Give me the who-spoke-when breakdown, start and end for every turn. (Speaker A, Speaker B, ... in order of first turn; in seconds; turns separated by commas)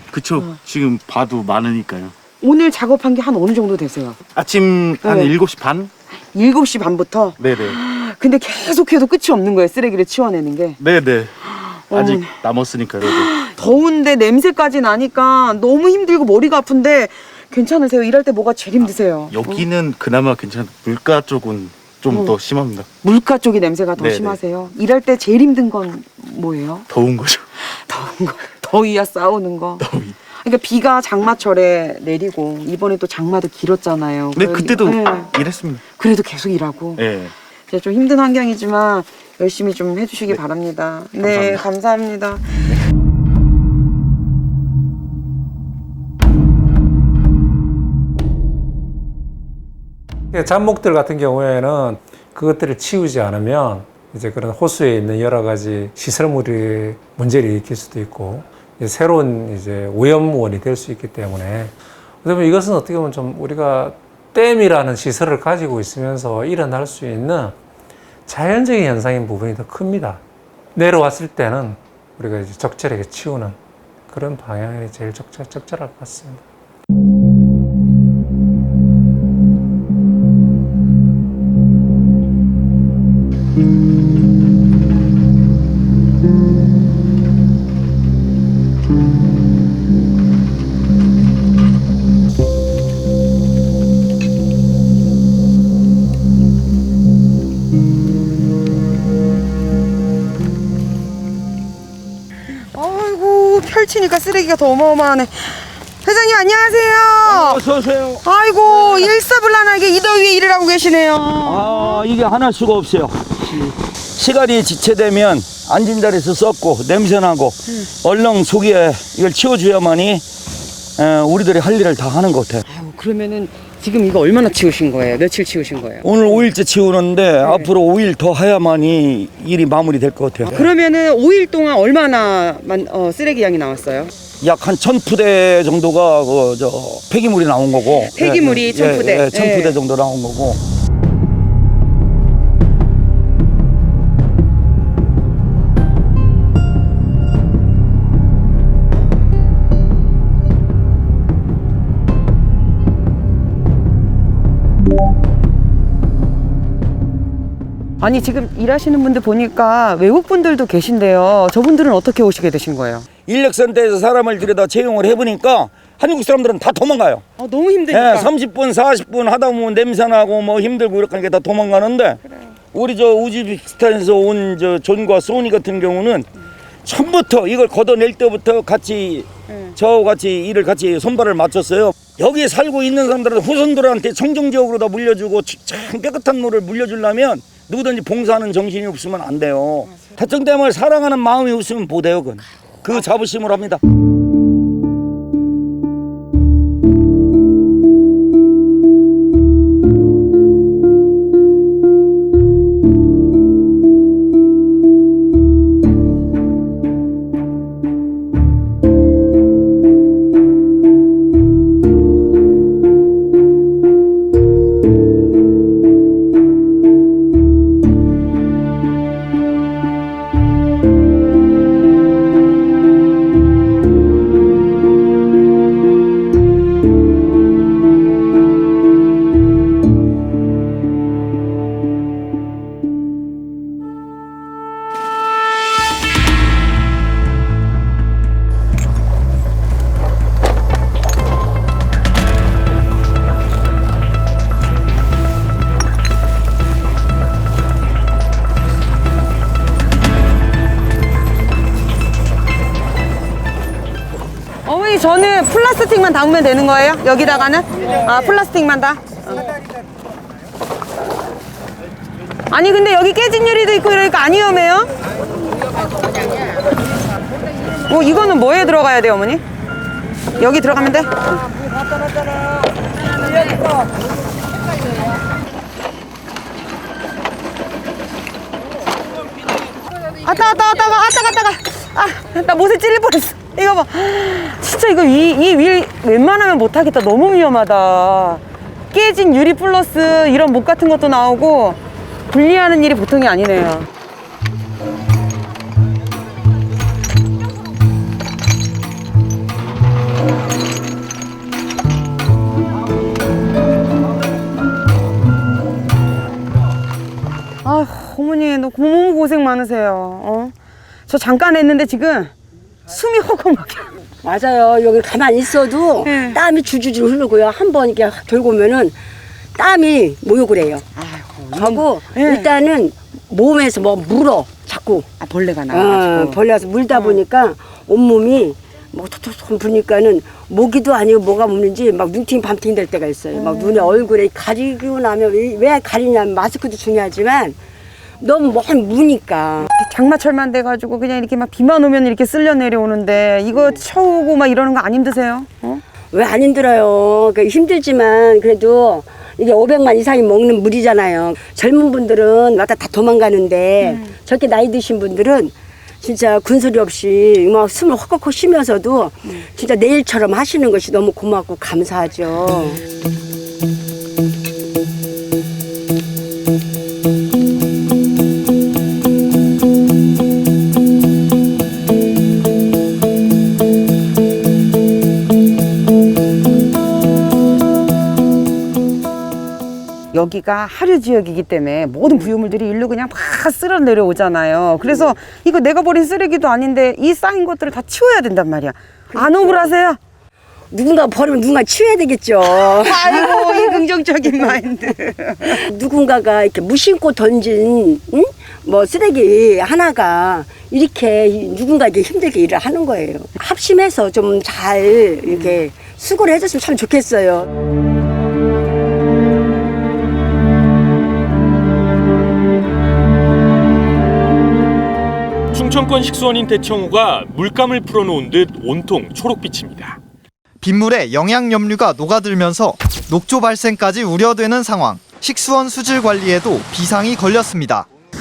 Speaker A: 0.1-2.1, Speaker B: 2.4-4.2, Speaker A: 4.3-5.9, Speaker B: 5.0-5.3, Speaker B: 6.3-10.8, Speaker A: 7.4-7.8, Speaker A: 10.8-11.3, Speaker B: 11.6-12.3, Speaker A: 11.9-13.3, Speaker B: 13.0-19.6, Speaker A: 19.3-22.9, Speaker B: 22.1-22.4, Speaker B: 23.0-26.9, Speaker A: 24.0-24.4, Speaker A: 26.9-27.4, Speaker B: 27.9-29.8, Speaker A: 29.8-30.1, Speaker B: 30.4-35.3, Speaker A: 34.3-35.8, Speaker B: 36.0-37.0, Speaker A: 37.0-37.3, Speaker B: 37.7-42.4, Speaker A: 41.2-41.6, Speaker C: 50.3-67.5, Speaker C: 68.3-70.2, Speaker C: 70.7-73.6, Speaker C: 74.1-76.4, Speaker B: 102.7-107.6, Speaker D: 107.2-108.2, Speaker B: 108.2-112.0, Speaker D: 108.8-109.1, Speaker D: 111.4-120.2, Speaker D: 121.0-122.6, Speaker B: 122.7-126.1, Speaker D: 126.0-130.7, Speaker B: 130.4-134.1, Speaker D: 134.4-140.6, Speaker B: 138.1-139.7, Speaker B: 158.0-163.1, Speaker D: 163.3-167.2, Speaker B: 167.4-168.3, Speaker D: 167.9-172.2, Speaker B: 172.2-172.5, Speaker D: 172.7-176.3, Speaker D: 176.8-193.8, Speaker B: 179.5-179.7, Speaker B: 254.7-259.5, Speaker B: 262.5-264.9, Speaker B: 267.9-269.4, Speaker B: 270.4-271.3, Speaker B: 280.2-293.9, Speaker B: 307.6-310.5, Speaker B: 311.1-312.3, Speaker B: 312.9-313.9, Speaker E: 314.2-318.9, Speaker B: 316.0-316.4, Speaker E: 319.6-320.8, Speaker B: 320.9-322.5, Speaker E: 321.5-325.1, Speaker B: 325.2-326.4, Speaker E: 325.7-337.6, Speaker B: 326.9-327.2, Speaker B: 333.3-334.0, Speaker E: 338.2-339.7, Speaker B: 339.7-345.8, Speaker E: 346.1-362.8, Speaker B: 353.8-354.1, Speaker B: 380.1-390.0, Speaker E: 389.1-389.7, Speaker E: 390.7-394.5, Speaker B: 392.4-395.6, Speaker E: 395.5-407.5, Speaker F: 415.5-420.0, Speaker G: 420.6-427.9